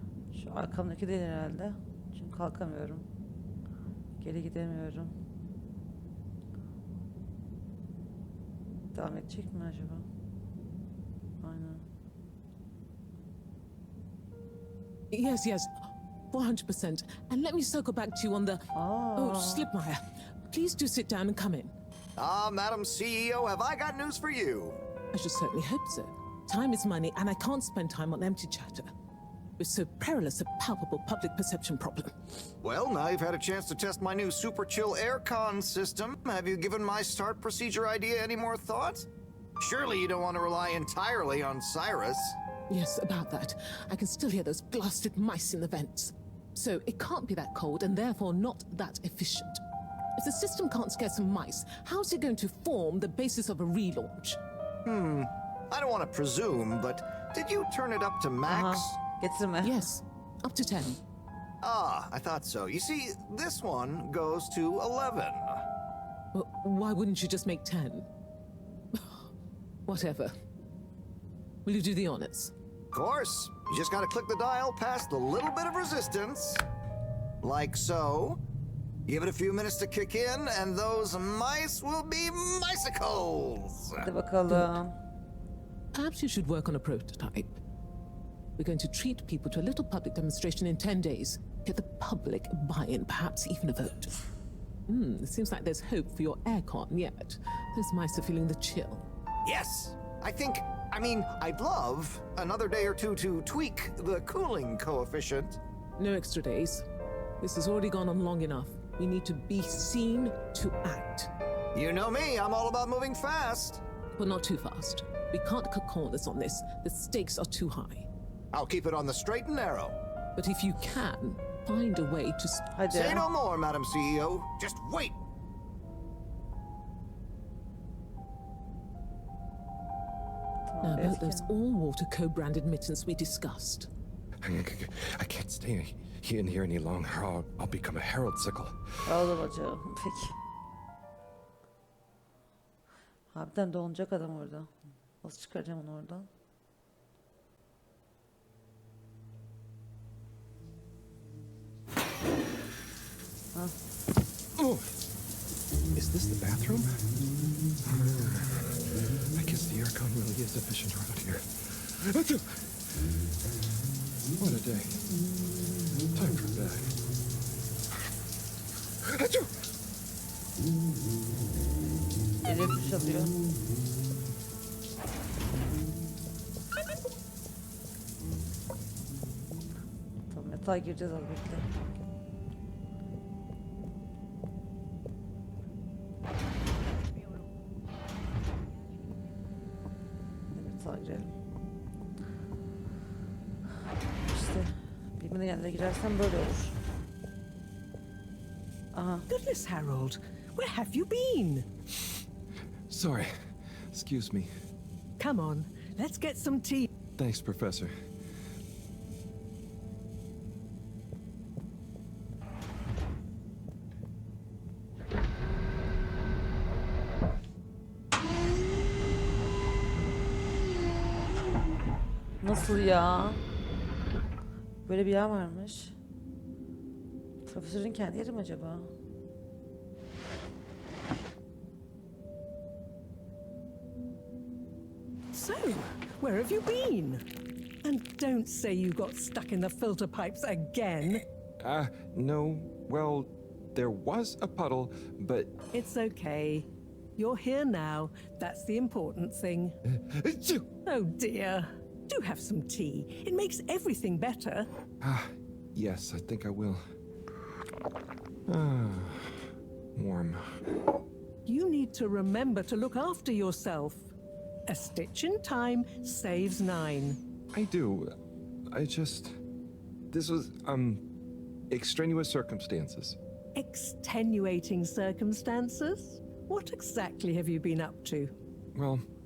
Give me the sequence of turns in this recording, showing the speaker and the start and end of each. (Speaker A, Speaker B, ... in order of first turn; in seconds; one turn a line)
Speaker A: 0.3-3.1
Speaker A: 4.2-5.2
Speaker A: 8.9-10.1
Speaker A: 11.4-11.9
Speaker B: 15.1-15.7
Speaker B: 16.3-21.7
Speaker A: 18.7-19.7
Speaker C: 22.2-24.8
Speaker B: 25.1-28.9
Speaker B: 29.6-32.4
Speaker C: 32.6-39.1
Speaker C: 39.6-42.4
Speaker B: 42.7-49.6
Speaker B: 50.2-54.4
Speaker C: 54.9-59.0
Speaker A: 58.5-59.9
Speaker B: 59.6-61.0
Speaker C: 61.6-65.6
Speaker B: 66.3-68.1
Speaker B: 68.9-69.3
Speaker B: 69.9-70.3
Speaker B: 71.7-72.5
Speaker C: 72.9-76.6
Speaker C: 77.4-78.4
Speaker C: 79.1-84.1
Speaker A: 84.0-85.0
Speaker B: 85.9-87.6
Speaker B: 88.6-94.2
Speaker B: 94.9-99.0
Speaker C: 99.5-105.6
Speaker B: 106.0-106.8
Speaker B: 107.4-111.3
Speaker C: 111.8-113.8
Speaker B: 114.2-118.1
Speaker C: 118.5-120.0
Speaker B: 120.4-122.7
Speaker A: 122.7-123.3
Speaker C: 122.9-125.2
Speaker A: 130.7-131.5
Speaker B: 130.8-133.9
Speaker D: 134.4-139.0
Speaker A: 139.1-140.4
Speaker A: 143.3-146.3
Speaker D: 154.6-155.0
Speaker D: 155.9-157.1
Speaker D: 157.8-162.8
Speaker D: 164.4-165.1
Speaker D: 166.1-167.0
Speaker D: 169.0-169.5
Speaker A: 172.4-173.4
Speaker A: 180.3-181.7
Speaker A: 190.5-191.3
Speaker A: 194.2-196.8
Speaker A: 198.9-199.3
Speaker E: 199.3-201.7
Speaker D: 202.9-204.5
Speaker E: 205.2-206.9
Speaker D: 207.2-208.0
Speaker A: 222.4-223.4
Speaker A: 224.9-226.0
Speaker A: 227.4-228.9
Speaker E: 235.3-237.2
Speaker E: 237.8-241.2
Speaker D: 241.6-245.6
Speaker E: 245.7-249.8
Speaker D: 249.8-250.7
Speaker E: 250.9-254.7
Speaker D: 255.0-256.8
Speaker D: 258.5-260.6
Speaker E: 261.5-264.1
Speaker E: 264.7-267.2
Speaker D: 267.5-268.1
Speaker D: 268.7-269.4
Speaker D: 270.1-271.0
Speaker D: 271.7-273.2
Speaker E: 273.6-278.3
Speaker D: 278.8-279.1